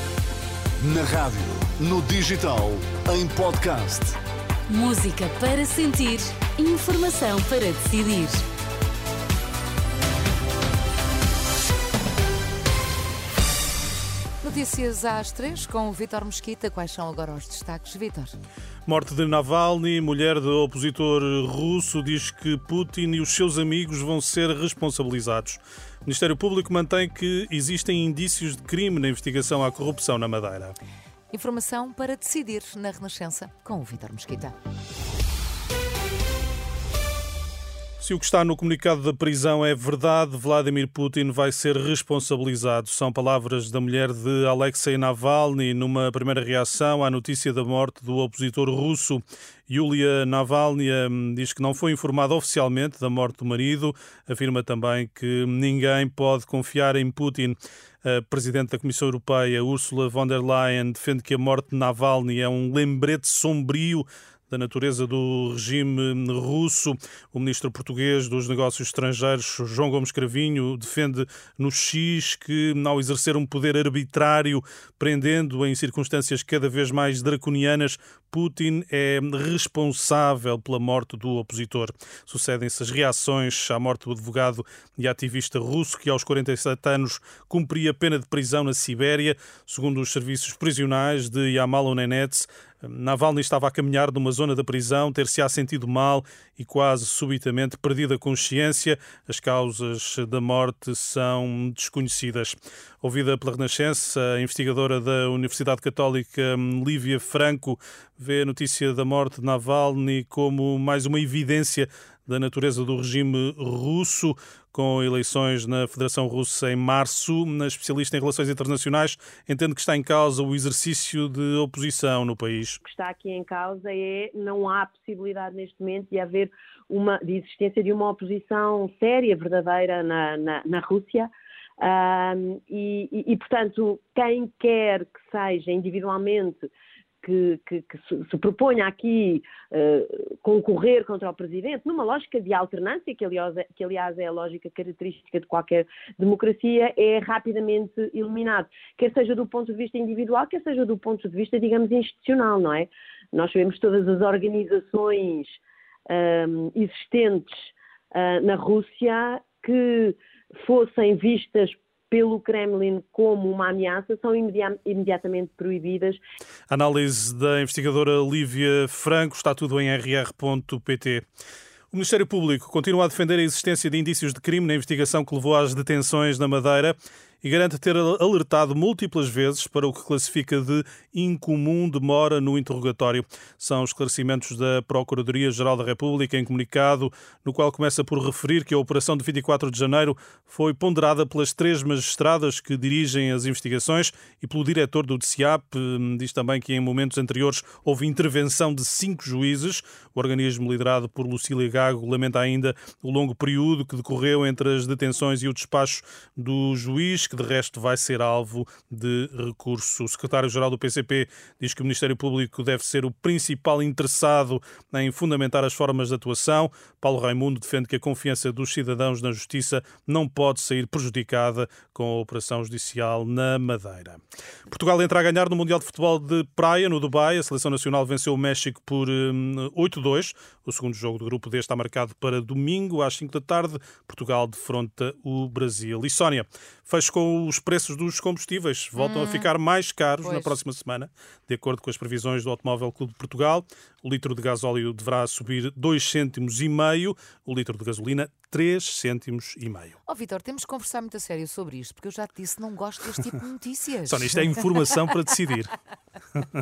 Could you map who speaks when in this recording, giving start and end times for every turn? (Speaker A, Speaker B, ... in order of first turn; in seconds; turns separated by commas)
Speaker A: 0.8-4.2, Speaker B: 4.7-8.5, Speaker C: 14.4-18.4, Speaker D: 18.9-30.8, Speaker C: 31.3-34.5, Speaker D: 38.0-122.8, Speaker E: 122.8-131.3, Speaker E: 131.8-136.7, Speaker E: 137.2-166.2, Speaker D: 166.7-171.2, Speaker D: 171.9-250.0, Speaker C: 239.0-239.5, Speaker C: 240.2-240.6, Speaker C: 250.1-254.8, Speaker D: 254.1-255.7